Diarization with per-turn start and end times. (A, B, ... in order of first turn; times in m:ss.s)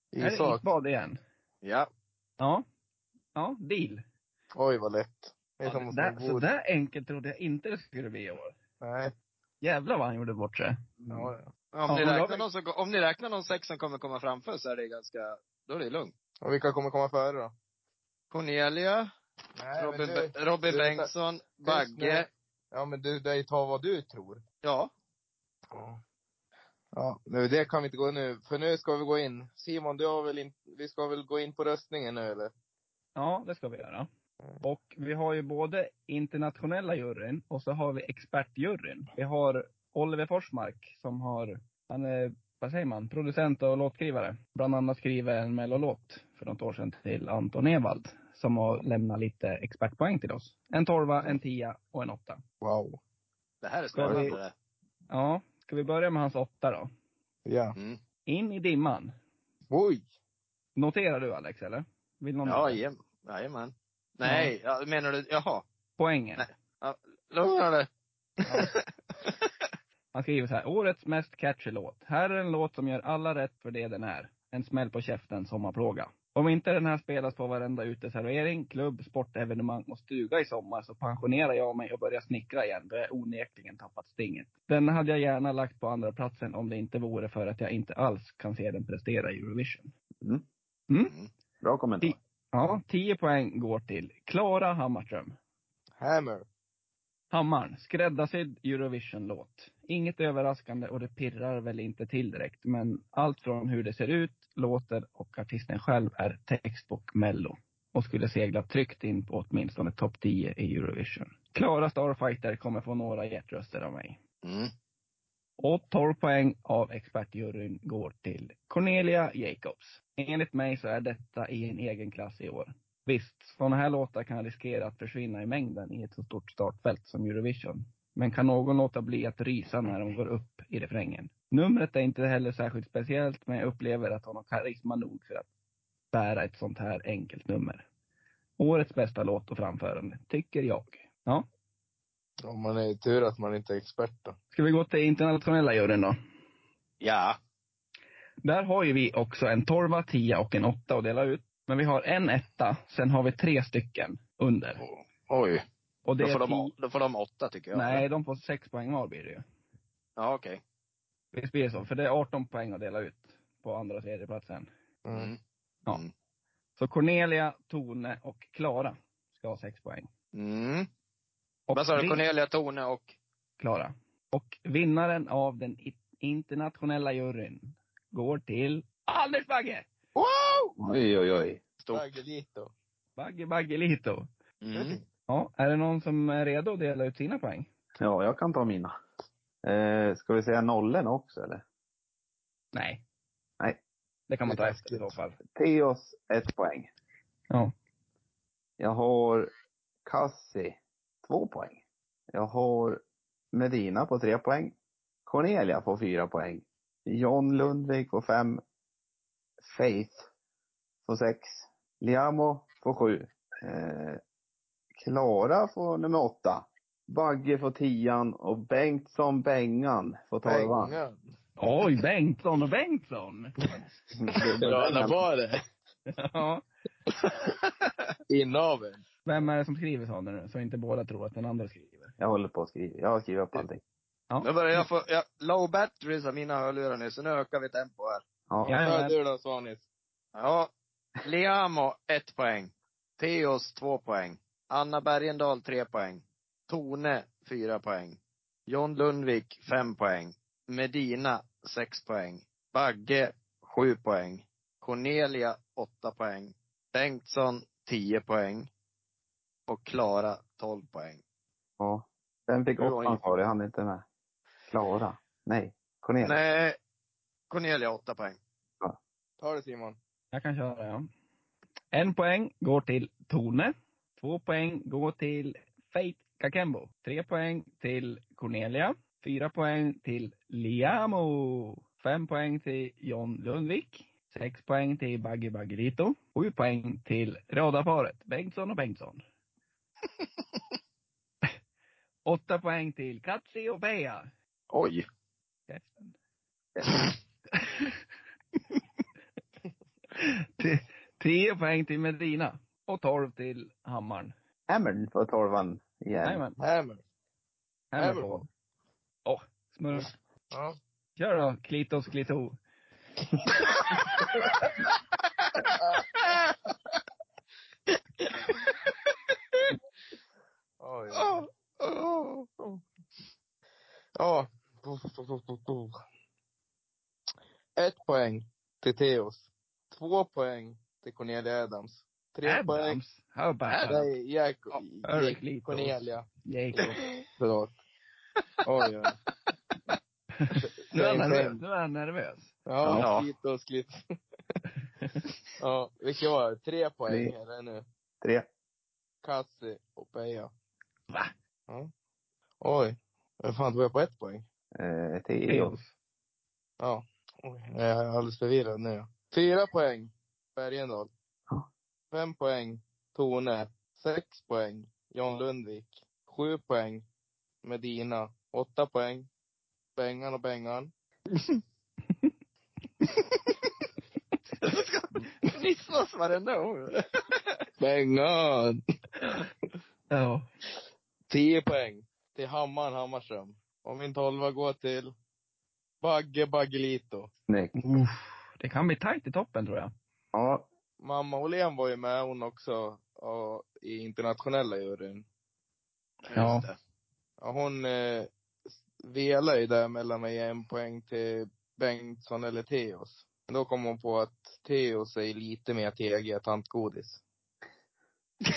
0:00.1-0:00.7 A
0:00.2-0:01.2 B
0:01.6-0:01.9 C
0:02.4-0:02.6 B
0:03.4-0:04.0 B
0:04.6-0:06.5 A
0:05.6-0:08.6 B
0:08.8-0:09.1 A
0:09.6-0:10.8 B
0:11.1-0:11.5 A
0:11.7-0:16.1 C
0:11.9-0:12.5 B
0:16.4-0:17.5 A
0:18.3-0:19.1 C
0:19.6-0:21.1 A
0:19.8-0:22.3 C
0:21.6-0:24.4 A
0:24.6-0:24.9 C
0:25.7-0:26.0 A
0:26.9-0:32.5 A
0:33.2-0:34.1 B
0:34.6-0:52.4 B
0:52.6-0:53.0 A
0:53.6-0:54.5 C
0:53.9-0:54.4 B
0:55.1-0:56.9 B
0:57.5-0:57.8 A
0:58.3-0:59.1 B
0:59.7-1:00.1 A
1:00.8-1:02.8 B
1:02.5-1:05.6 C
1:04.2-1:04.5 B
1:06.0-1:06.5 B
1:06.4-1:07.9 C
1:08.4-1:09.4 C
1:10.1-1:29.9 B
1:30.9-1:31.2 B
1:31.6-1:32.2 D
1:32.0-1:35.4 B
1:36.0-1:36.5 A
1:37.3-1:54.2 B
1:54.4-1:54.7 C
1:55.6-2:15.5 B
2:16.1-2:17.9 B
2:18.6-2:21.5 B
2:22.4-2:24.4 A
2:24.5-2:26.2 B
2:27.0-2:27.4 C
2:28.4-2:34.8 B
2:34.8-2:35.6 C
2:36.0-2:36.7 B
2:36.2-2:38.0 C
2:37.7-2:39.4 B
2:40.2-2:40.6 C
2:41.3-2:44.7 B
2:45.0-2:45.3 A
2:45.1-2:45.4 C
2:46.8-2:50.1 B
2:50.3-2:50.9 C
2:51.7-2:52.2 B
2:51.7-2:53.2 C
2:53.6-2:59.9 B
3:00.2-3:00.7 C
3:00.8-3:01.6 D
3:01.9-3:02.7 A
3:03.2-3:04.3 B
3:04.6-3:05.0 C
3:04.7-3:05.0 A
3:05.3-3:07.7 B
3:08.0-3:09.0 D
3:09.6-3:11.6 D
3:12.7-3:13.0 B
3:14.3-3:15.4 B
3:14.5-3:15.1 A
3:15.5-3:16.9 D
3:18.8-3:19.5 D
3:20.0-3:21.8 D
3:22.3-3:23.0 D
3:23.5-3:24.8 D
3:25.3-3:28.6 D
3:29.6-3:30.2 D
3:31.0-3:34.2 D
3:35.0-3:41.0 D
3:40.4-3:41.2 A
3:41.6-3:43.6 B
3:44.1-3:45.2 D
3:44.5-3:45.6 A
3:46.1-3:46.6 B
3:48.3-3:49.0 A
3:49.2-3:52.1 B
3:52.2-3:53.8 D
3:54.4-3:58.2 C
3:58.5-3:58.8 D
3:58.6-3:59.2 B
3:58.8-3:59.8 A
4:00.4-4:08.2 C
4:08.7-4:18.7 C
4:19.7-4:21.2 C
4:21.8-4:24.0 D
4:22.8-4:23.2 C
4:24.7-4:26.4 D
4:26.2-4:26.8 C
4:27.5-4:28.4 C
4:29.4-4:30.0 A
4:30.3-4:31.1 B
4:31.9-4:49.2 B
4:52.2-4:54.3 B
4:54.7-4:55.0 C
4:55.7-4:56.2 B
4:57.6-4:58.0 B
5:00.2-5:04.3 B
5:04.7-5:06.4 D
5:06.2-5:06.6 B
5:06.6-5:07.0 A
5:07.9-5:08.5 B
5:08.0-5:08.4 A
5:09.2-5:10.1 B
5:11.2-5:12.6 B
5:18.3-5:18.7 C
5:20.8-5:21.5 A
5:21.2-5:22.5 C
5:24.2-5:26.0 A
5:27.8-5:33.0 A
5:32.4-5:34.1 B
5:33.8-5:36.3 A
5:34.8-5:37.0 B
5:37.4-5:37.7 A
5:38.6-5:39.2 A
5:40.4-5:43.0 B
5:40.6-5:41.6 A
5:42.7-5:44.0 A
5:42.8-5:43.3 C
5:45.0-5:45.2 B
5:45.6-5:47.8 A
5:47.1-5:47.3 D
5:48.2-5:48.5 D
5:49.2-5:50.5 A
5:52.6-5:54.4 A
5:54.8-5:55.8 D
5:55.5-5:55.9 B
5:56.8-6:01.1 A
6:02.1-6:07.0 A
6:07.6-6:09.3 A
6:10.0-6:10.9 A
6:14.6-6:17.6 C
6:17.8-6:18.8 A
6:20.1-6:20.4 B
6:21.3-6:25.1 A
6:26.0-6:27.3 A
6:27.5-6:27.8 D
6:27.8-6:29.9 B
6:30.3-6:30.7 D
6:31.0-6:35.2 A
6:36.3-6:36.8 C
6:36.3-6:36.7 B
6:37.4-6:38.3 A
6:39.0-6:47.2 A